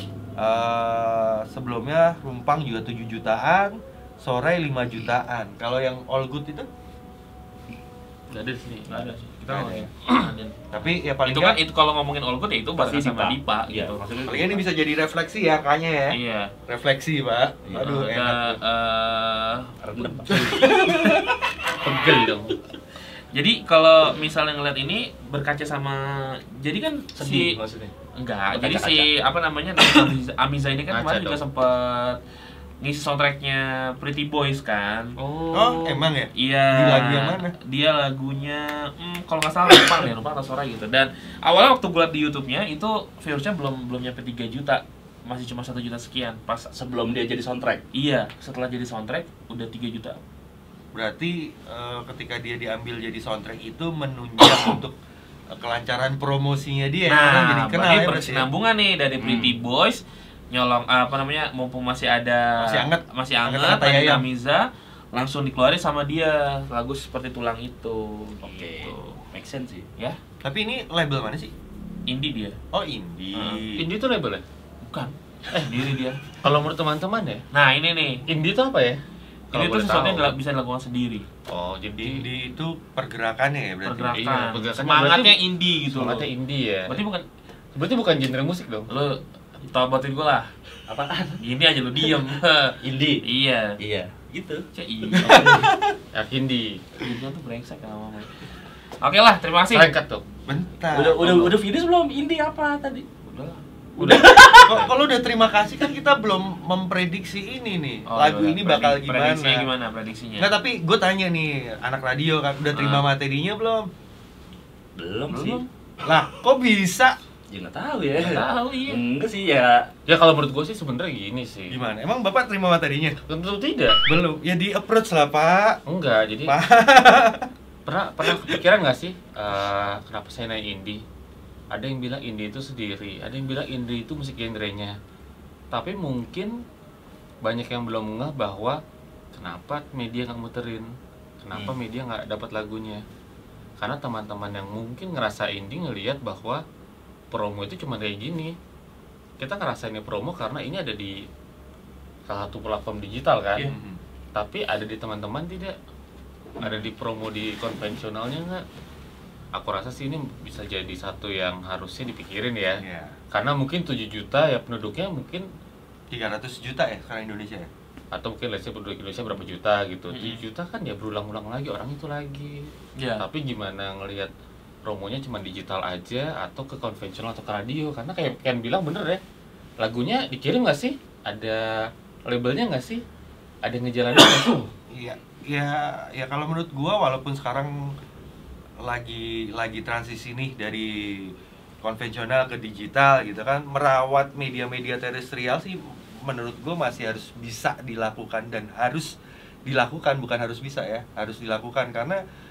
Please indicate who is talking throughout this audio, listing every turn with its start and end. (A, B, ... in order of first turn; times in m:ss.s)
0:00.4-0:06.7 A
0:08.3-0:09.1 B
0:08.9-0:10.6 C
0:09.5-0:09.9 A
0:10.7-0:11.6 A
0:11.2-0:14.0 C
0:12.8-0:14.6 D
0:14.3-0:18.6 A
0:16.1-0:16.5 C
0:17.8-0:19.8 C
0:19.8-0:20.7 D
0:20.3-0:21.4 A
0:20.3-0:20.8 C
0:21.8-0:22.6 B
0:23.3-0:27.6 C
0:27.2-0:27.9 D
0:28.2-0:32.2 C
0:28.5-0:29.1 D
0:30.9-0:31.4 B
0:32.8-0:35.2 C
0:35.2-0:36.0 B
0:35.5-0:37.5 A
0:36.4-0:46.7 C
0:46.7-0:47.8 D
0:47.9-0:50.2 C
0:50.9-0:55.0 A
0:55.5-0:58.5 A
0:57.1-1:09.2 C
0:59.2-0:59.6 D
1:02.6-1:04.2 A
1:08.4-1:09.9 D
1:10.4-1:11.5 A
1:12.1-1:12.6 C
1:12.7-1:13.9 A
1:13.3-1:13.6 C
1:13.8-1:14.4 B
1:14.8-1:16.2 C
1:15.5-1:15.8 B
1:16.4-1:17.4 B
1:17.5-1:18.2 C
1:18.3-1:20.3 B
1:19.5-1:21.3 C
1:21.5-1:22.3 B
1:22.0-1:24.2 A
1:23.8-1:26.3 C
1:24.1-1:27.0 B
1:26.9-1:27.2 C
1:27.8-1:28.9 B
1:28.9-1:30.5 C
1:30.9-1:31.4 D
1:31.4-1:33.8 C
1:32.8-1:33.2 D
1:33.8-1:34.6 D
1:34.7-1:35.6 C
1:35.2-1:35.9 A
1:35.2-1:36.9 B
1:37.0-1:38.4 C
1:39.0-1:39.9 C
1:39.7-1:40.2 B
1:40.5-1:41.5 A
1:40.9-1:43.1 D
1:43.2-1:44.8 C
1:44.0-1:49.7 A
1:48.1-1:50.5 C
1:50.4-1:53.9 A
1:52.7-1:53.1 C
1:55.0-1:55.6 D
1:55.3-1:55.7 C
1:56.0-1:57.2 A
1:57.5-1:59.9 D
1:58.2-1:59.0 C
2:00.1-2:01.8 B
2:01.7-2:03.2 A
2:03.3-2:04.0 B
2:04.1-2:05.8 A
2:05.9-2:06.6 B
2:06.5-2:07.5 A
2:07.9-2:11.0 B
2:11.7-2:15.0 B
2:15.7-2:16.6 B
2:17.4-2:18.8 B
2:19.3-2:20.9 B
2:21.4-2:23.0 B
2:23.8-2:26.6 B
2:27.3-2:28.6 B
2:29.4-2:31.2 B
2:32.3-2:33.7 B
2:33.6-2:34.0 A
2:34.3-2:35.8 B
2:36.6-2:38.6 B
2:39.5-2:45.5 B
2:42.8-2:43.2 A
2:46.1-2:47.7 A
2:48.1-2:54.3 B
2:50.1-2:50.4 C
2:53.0-2:53.2 C
2:54.8-2:59.2 B
2:59.8-3:03.0 B
3:03.6-3:04.7 B
3:04.9-3:07.9 A
3:08.8-3:19.1 A
3:19.6-3:22.2 A